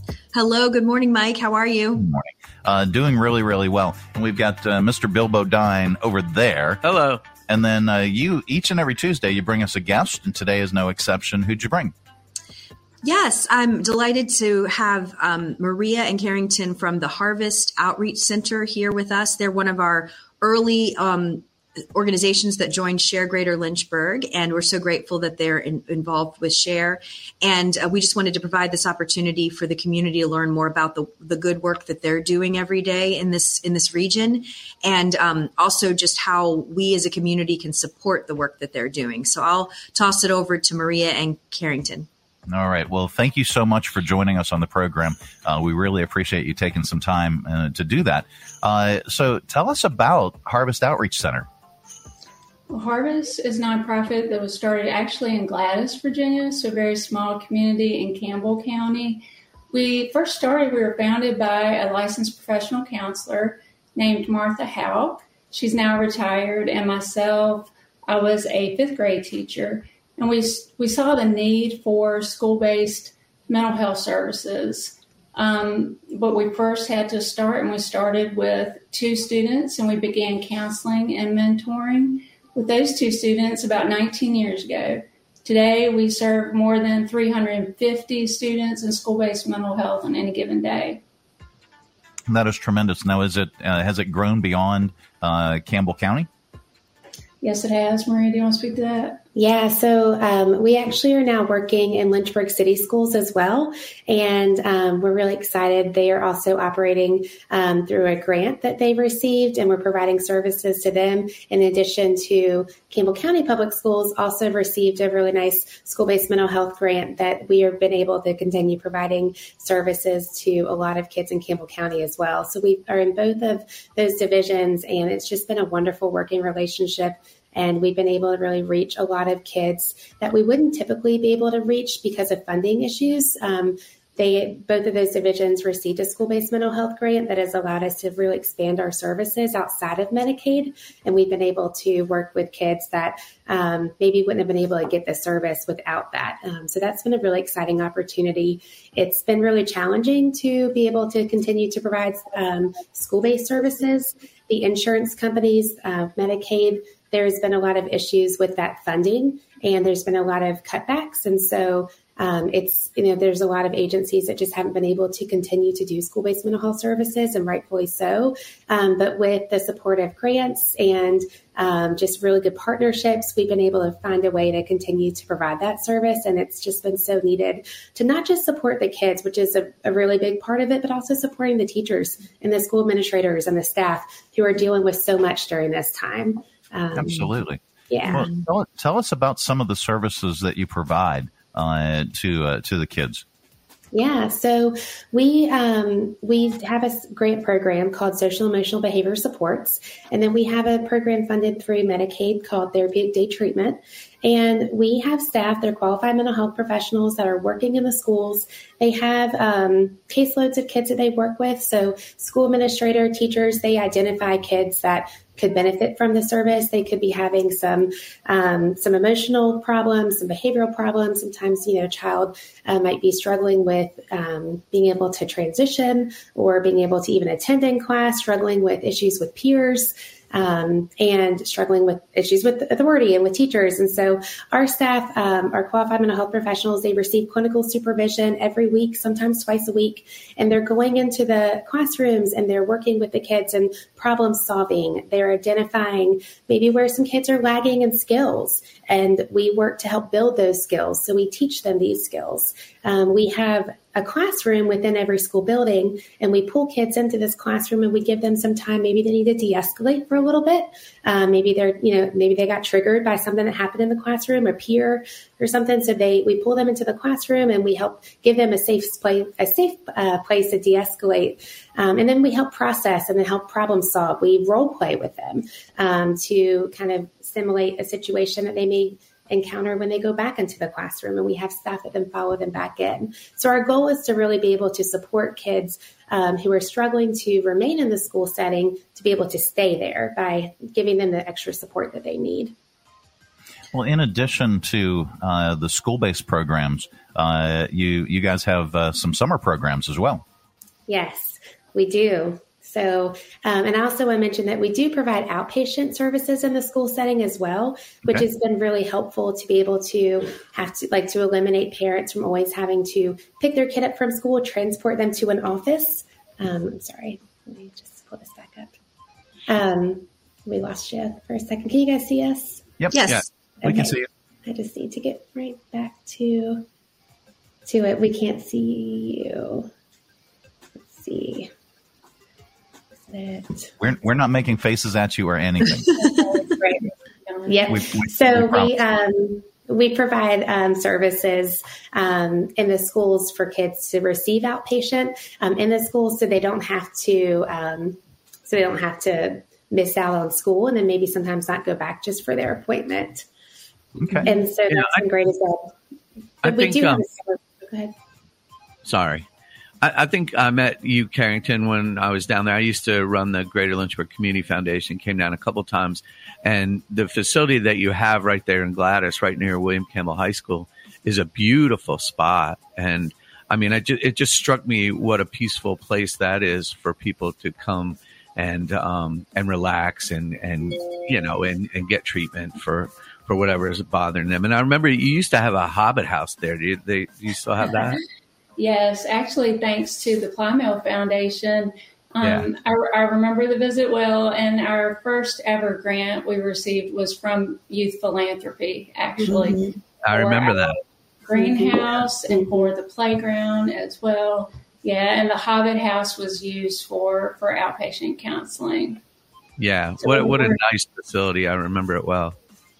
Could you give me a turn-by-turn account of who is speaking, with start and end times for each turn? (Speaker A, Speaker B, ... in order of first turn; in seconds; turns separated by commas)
Speaker A: 0.3-2.0, Speaker B: 2.0-6.8, Speaker C: 6.8-7.2, Speaker B: 7.5-11.9, Speaker A: 13.0-42.1, Speaker B: 42.5-51.5, Speaker D: 52.7-91.0, Speaker B: 92.3-96.3, Speaker D: 97.4-99.2, Speaker E: 99.3-187.3, Speaker B: 186.9-193.2, Speaker E: 187.9-188.2, Speaker E: 193.9-292.5, Speaker B: 293.7-300.2, Speaker E: 300.9-318.8, Speaker E: 319.5-322.7, Speaker A: 322.9-323.2, Speaker E: 323.6-326.6, Speaker B: 323.6-324.0, Speaker E: 327.6-329.7, Speaker E: 330.9-331.5, Speaker E: 333.1-333.8, Speaker B: 333.8-335.9, Speaker D: 335.9-337.7, Speaker E: 337.4-353.2, Speaker B: 337.7-338.8, Speaker B: 354.0-354.3, Speaker E: 354.2-355.7, Speaker C: 354.7-355.0, Speaker C: 356.4-357.0, Speaker E: 356.4-357.9, Speaker C: 358.8-359.2, Speaker C: 359.8-388.0, Speaker D: 388.6-400.7, Speaker C: 392.2-392.5, Speaker C: 400.0-400.8, Speaker D: 401.2-409.0, Speaker C: 409.6-412.4, Speaker D: 410.0-410.6